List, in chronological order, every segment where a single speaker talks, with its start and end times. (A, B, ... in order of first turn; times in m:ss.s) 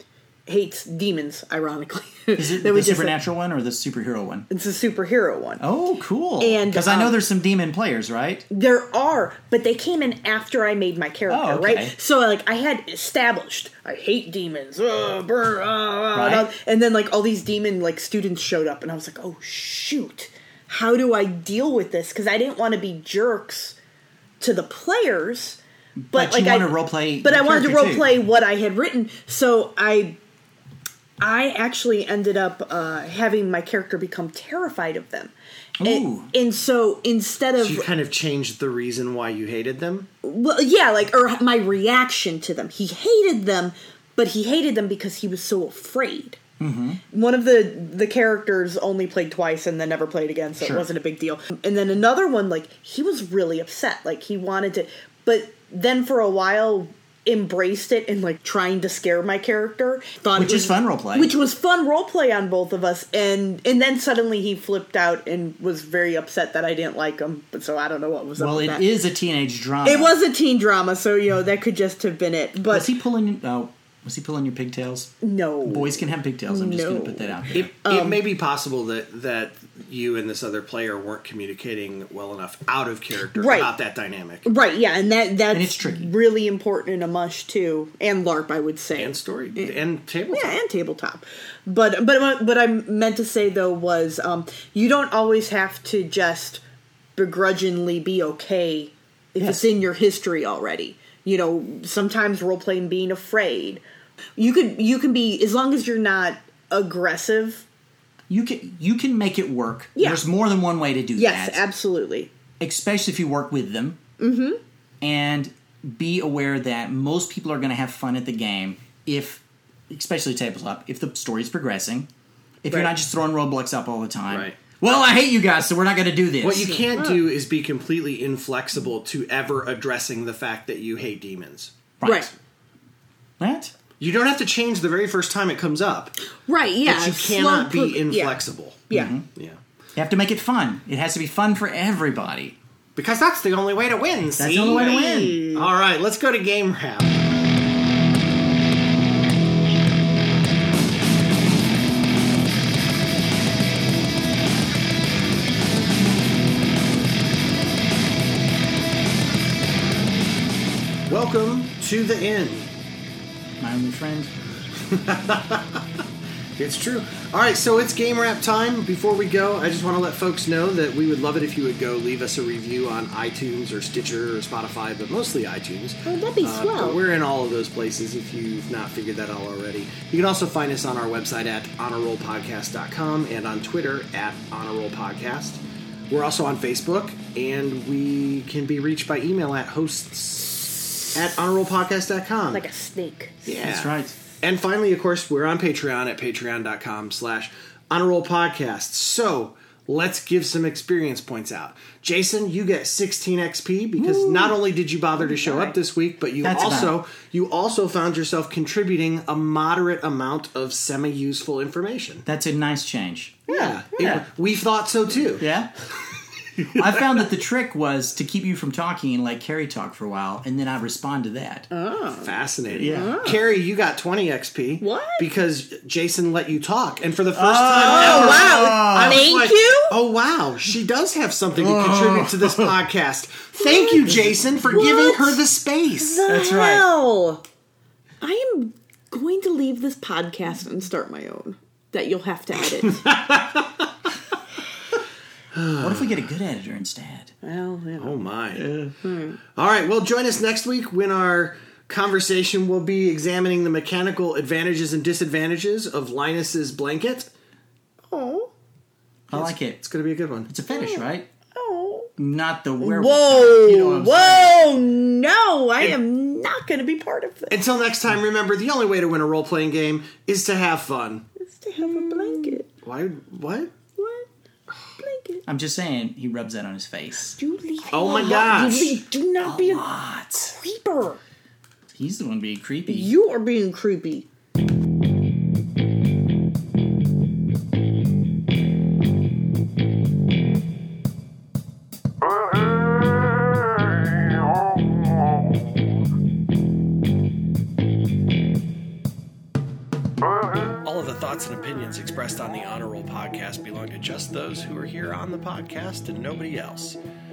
0:00.5-0:03.2 A
0:02.4-0:04.5 B
0:04.5-0:05.6 A
0:05.6-0:08.4 B
0:06.4-0:07.2 A
0:08.5-0:23.8 A
0:11.3-0:11.9 B
0:16.1-0:16.5 B
0:24.4-0:25.6 A
0:26.0-0:28.1 B
0:26.1-0:30.2 A
0:31.2-0:37.9 A
0:35.8-0:36.3 B
0:37.6-0:40.1 C
0:40.2-0:46.4 A
0:46.6-0:47.0 B
0:47.1-1:08.9 A
0:50.6-0:50.9 B
1:00.3-1:01.3 B
1:08.4-1:10.1 B
1:09.8-1:12.9 A
1:12.7-1:17.7 B
1:15.2-1:18.2 A
1:17.5-1:24.4 C
1:23.4-1:23.7 A
1:24.4-1:29.8 A
1:25.5-1:26.1 B
1:29.0-1:30.6 C
1:30.3-1:36.6 A
1:37.2-1:43.8 A
1:39.4-1:39.7 B
1:44.4-1:47.6 A
1:48.3-1:51.6 B
1:50.0-1:50.2 A
1:51.2-1:52.3 A
1:52.6-1:54.0 B
1:54.2-1:54.6 A
1:55.0-2:02.1 B
2:02.6-2:06.8 B
2:04.3-2:04.6 C
2:06.4-2:11.9 C
2:06.9-2:07.2 A
2:12.0-2:12.3 B
2:12.0-2:12.3 A
2:13.4-2:13.7 B
2:14.0-2:16.2 C
2:16.4-2:19.1 A
2:16.8-2:19.6 C
2:18.9-2:19.2 B
2:19.9-2:22.6 B
2:23.0-2:27.2 C
2:24.4-2:25.4 B
2:24.7-2:25.7 A
2:41.1-2:42.7 C
2:43.6-2:44.3 B
2:44.9-2:45.8 C
2:46.6-3:12.6 C
2:56.0-2:57.0 A
3:12.5-3:13.6 A
3:13.4-3:32.2 C
3:13.6-3:14.2 B
3:24.0-3:24.6 B
3:25.2-3:25.8 A
3:26.4-3:27.0 B
3:32.2-3:33.4 B
3:33.5-3:35.5 C
3:33.5-3:33.8 A
3:35.4-3:35.7 B
3:36.7-3:41.7 B
3:41.7-3:42.3 A
3:42.1-3:56.2 C
3:42.7-3:43.2 B
3:42.8-3:43.5 A
3:44.8-3:45.2 A
3:47.3-3:49.2 B
3:47.8-3:50.0 A
3:51.6-3:52.7 B
3:53.6-3:54.0 A
3:54.7-3:55.4 A
3:56.0-3:57.4 A
3:56.3-3:56.8 B
3:58.2-4:03.0 A
4:02.9-4:03.9 C
4:05.5-4:06.2 C
4:05.8-4:07.3 B
4:07.4-4:08.1 A
4:08.0-4:08.8 C
4:08.6-4:08.9 B
4:09.0-4:09.4 A
4:09.5-4:17.3 C
4:18.1-4:18.5 A
4:19.3-4:19.8 B
4:19.3-4:20.5 C
4:20.5-4:21.3 B
4:20.7-4:22.1 A
4:22.2-4:24.6 B
4:22.8-4:27.6 A
4:27.5-4:31.2 C
4:31.4-4:32.6 A
4:32.1-4:32.6 B
4:32.7-4:33.7 C
4:34.0-4:34.3 A
4:35.0-4:35.4 A
4:35.4-4:37.4 B
4:37.4-4:39.9 A
4:37.9-4:39.0 C
4:39.4-4:40.6 B
4:40.5-4:41.2 A
4:41.9-4:43.1 B
4:42.9-4:44.3 A
5:00.8-5:07.0 C